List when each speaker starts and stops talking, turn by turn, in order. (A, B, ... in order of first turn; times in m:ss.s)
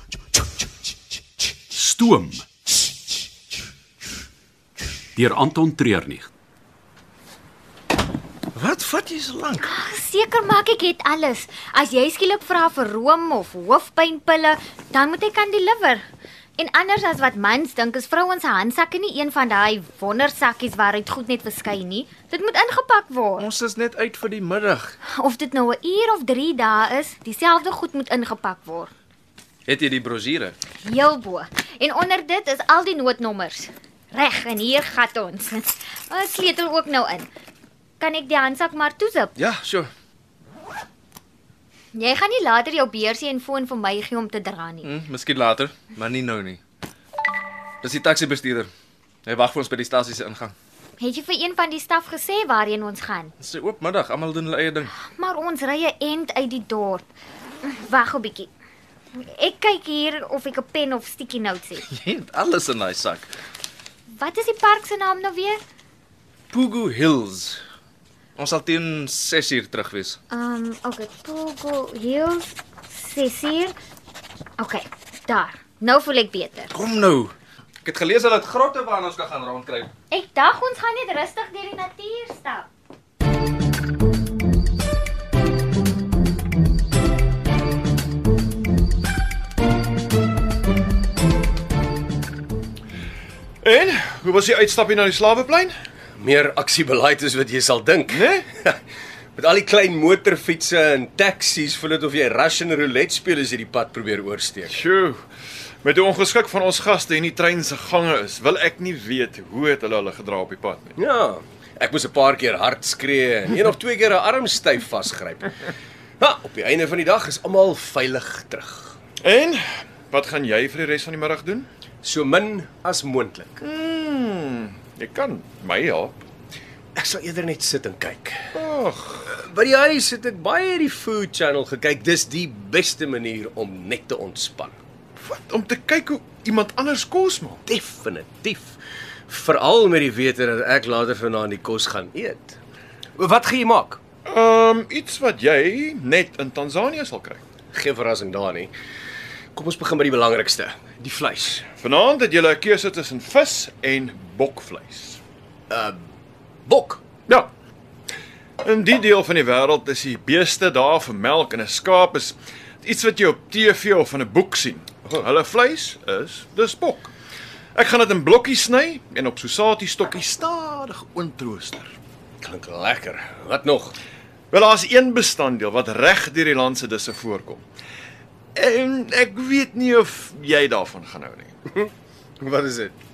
0:01.7-0:02.4 A
0:05.2-0:06.3 A
0:08.5-0:09.7 B
0:09.6-0:16.0 C
0:16.6-0:23.5 C
0:23.4-0:25.0 B
0:25.2-0:28.9 C
0:29.7-0:30.5 B
0:30.8-0:37.3 C
0:38.0-0:39.3 C
0:39.4-0:39.9 B
0:41.9-0:44.9 C
0:44.8-0:46.6 B
0:47.8-0:48.7 B
0:49.2-0:50.5 B
0:51.0-0:53.3 C
0:53.4-0:54.9 B
0:55.0-0:57.1 C
0:57.6-0:58.5 C
0:59.1-1:01.8 C
1:01.9-1:03.3 B
1:04.1-1:05.6 C
1:06.5-1:07.6 B
1:08.4-1:10.2 B
1:10.3-1:13.7 C
1:14.6-1:16.7 C
1:16.7-1:19.9 B
1:20.1-1:22.7 C
1:33.6-1:35.7 D
1:36.2-1:38.8 E
1:38.1-1:38.5 D
1:39.3-1:44.8 E
1:44.7-1:45.2 D
1:45.8-1:51.0 D
1:51.0-1:55.5 E
1:56.2-1:59.0 E
1:59.2-2:01.7 D
2:02.0-2:03.6 E
2:03.6-2:06.2 D
2:07.0-2:08.4 E
2:08.5-2:09.2 D
2:09.2-2:14.8 E
2:15.2-2:17.6 D
2:17.7-2:18.7 E
2:19.3-2:22.6 E
2:23.2-2:24.0 E
2:24.2-2:27.4 D
2:27.7-2:28.7 E
2:29.5-2:31.7 E
2:31.8-2:35.2 D
2:35.7-2:36.0 E
2:36.7-2:37.0 E
2:38.6-2:47.1 D
2:47.7-2:52.0 D
2:52.4-2:54.0 E
2:54.5-2:57.6 D
2:58.5-3:01.5 D
3:01.7-3:03.0 E